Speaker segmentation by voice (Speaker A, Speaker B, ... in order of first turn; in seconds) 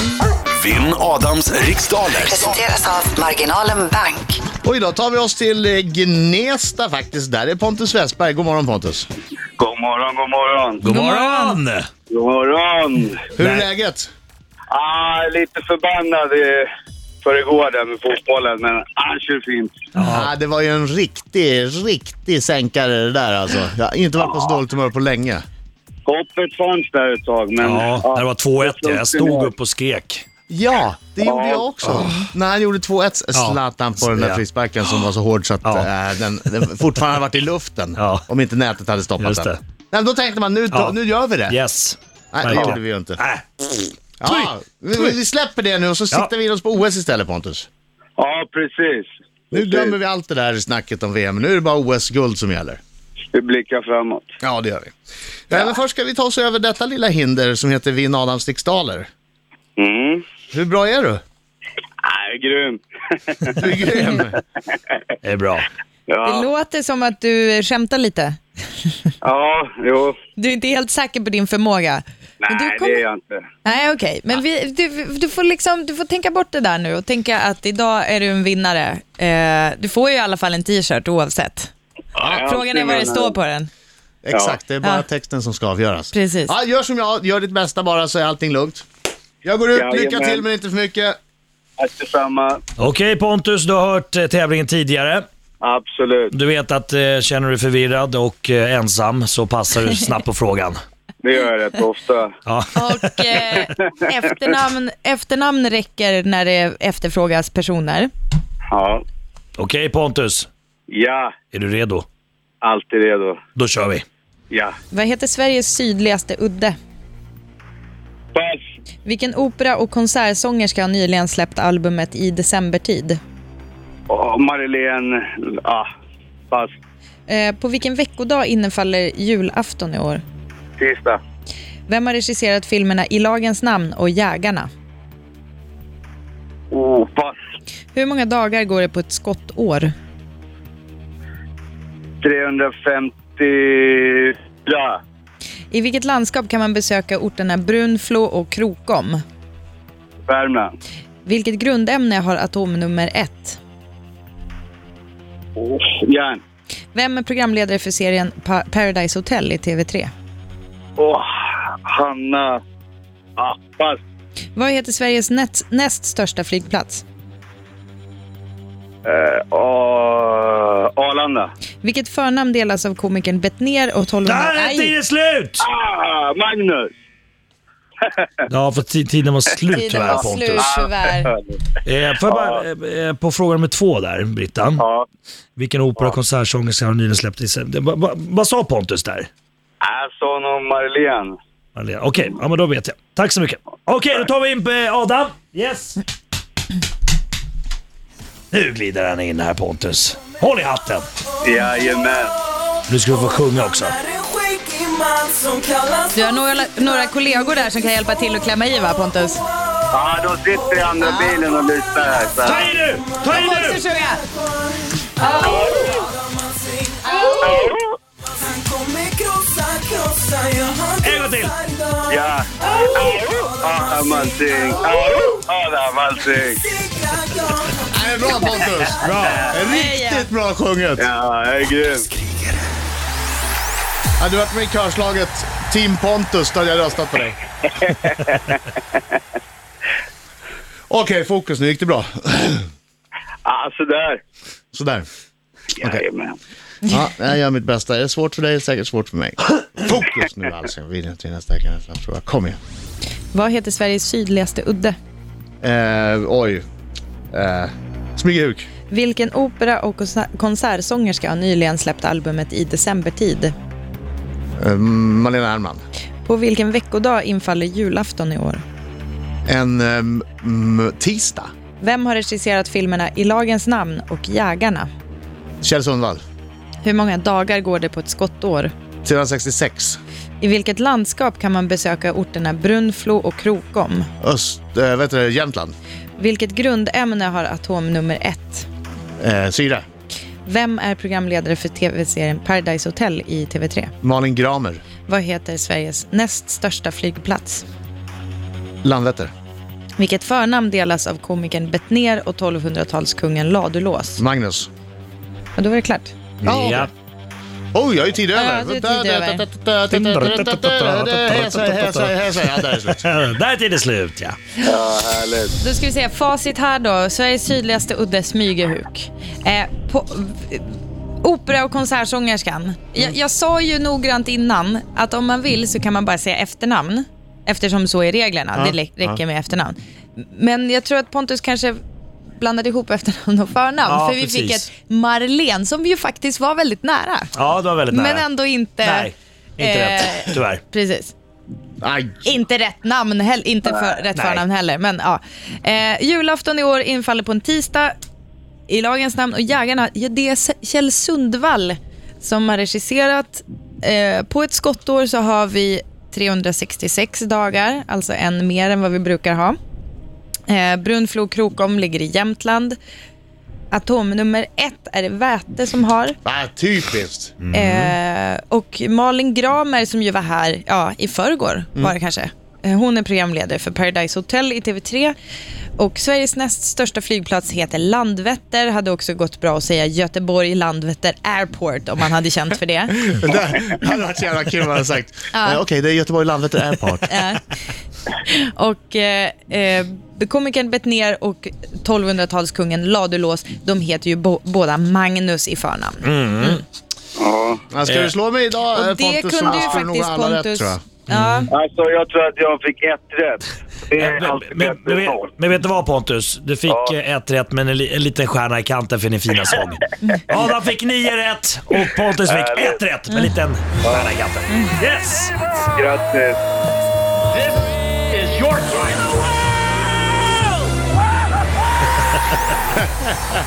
Speaker A: 0.5-2.6
Speaker B: 2.2-4.4
Speaker C: 4.6-9.1, 13.3-14.1, 20.0-25.4, 30.5-41.6, 42.3-43.2, 44.2-47.7, 49.5-52.8, 54.4-54.9, 55.5-59.1, 60.5-61.2, 63.6-64.4, 84.2-88.8, 89.4-91.2, 227.9-231.1, 234.2-237.4, 240.9-242.7, 244.7-245.1, 246.9-252.6, 255.6-256.6, 257.3-258.7, 264.6-265.8, 269.5-271.5, 275.6-276.2, 279.0-280.0, 284.2-285.7, 289.2-289.8, 294.0-294.8, 298.8-299.3, 304.2-304.7, 306.4-306.9, 307.7-313.0, 328.5-329.2, 341.8-342.3, 366.2-367.4, 383.0-387.3, 397.7-400.9, 422.7-423.3
Speaker D: 9.6-10.8, 12.1-13.3, 14.7-16.6, 17.2-19.8, 24.2-24.6, 26.1-29.5, 31.2-31.7, 48.2-49.9, 53.3-54.3, 59.8-60.2, 62.0-63.7, 64.7-65.0, 66.1-66.5, 69.2-70.2, 72.4-73.5, 82.2-83.3, 89.7-90.4, 91.8-92.6, 95.6-96.3, 101.2-102.3, 103.6-103.9, 108.7-109.0, 110.9-111.3, 112.6-113.4, 118.3-118.6, 124.1-125.8, 130.8-131.2, 136.7-137.4, 142.2-145.0, 150.3-150.7, 155.6-156.4, 161.0-161.2, 161.8-162.6, 163.4-164.0, 169.0-171.5, 175.6-176.9, 178.0-178.3, 180.0-181.6, 182.2-182.6, 184.8-185.1, 189.8-191.3, 201.4-202.3, 209.9-212.7, 215.3-216.1, 217.3-217.9, 222.1-226.6, 229.2-229.5, 231.0-232.1, 237.7-239.2, 243.4-244.2, 245.8-246.4, 314.6-315.6, 397.1-397.6, 399.5-399.8, 401.5-405.3, 406.7-406.9, 412.2-412.8, 413.8-414.1, 415.7-416.4
Speaker E: 10.8-11.8, 13.4-13.7, 19.9-20.3, 27.6-30.2, 31.9-32.1, 33.3-34.4, 35.6-35.9, 38.0-38.2, 39.2-39.6, 40.7-45.1, 65.2-65.7, 92.8-95.2, 96.3-100.8, 102.5-103.2, 109.5-110.5, 111.5-112.0, 113.5-114.0, 174.2-175.7, 178.5-180.7, 181.8-184.8, 185.6-189.3, 191.7-196.0, 198.5-201.1, 202.9-204.0, 212.4-213.8, 221.0-221.6, 229.0-229.5, 306.4-306.9, 309.9-314.4, 333.9-334.6, 337.3-338.2, 338.8-340.6, 344.1-344.4, 367.4-367.9, 396.0-396.6, 397.9-398.1, 401.1-401.5, 404.0-415.4
Speaker F: 10.8-11.6, 66.2-68.9, 70.3-73.0, 73.6-81.7, 82.4-83.7, 86.1-86.5, 102.7-108.1, 114.9-116.8, 119.0-123.2, 127.3-130.2, 131.9-134.7, 137.9-139.9, 145.7-149.2, 151.2-153.6, 156.9-160.1, 164.5-167.0, 171.8-174.9, 179.7-181.3, 206.1-209.4, 213.2-214.2, 215.2-215.5, 229.6-230.3, 253.3-254.9, 258.9-263.5, 266.2-268.6, 271.8-274.9, 276.8-278.7, 280.4-284.1, 286.2-288.7, 290.4-293.9, 295.1-297.6, 300.0-304.2, 305.6-306.1, 308.3-309.4, 315.6-331.8, 332.4-337.3, 337.9-341.1, 342.2-347.9, 348.7-359.6, 360.5-362.8, 363.7-366.2, 367.5-375.1, 375.8-383.0, 385.3-385.6, 387.1-387.4, 388.2-396.5, 398.7-401.4, 414.5-414.7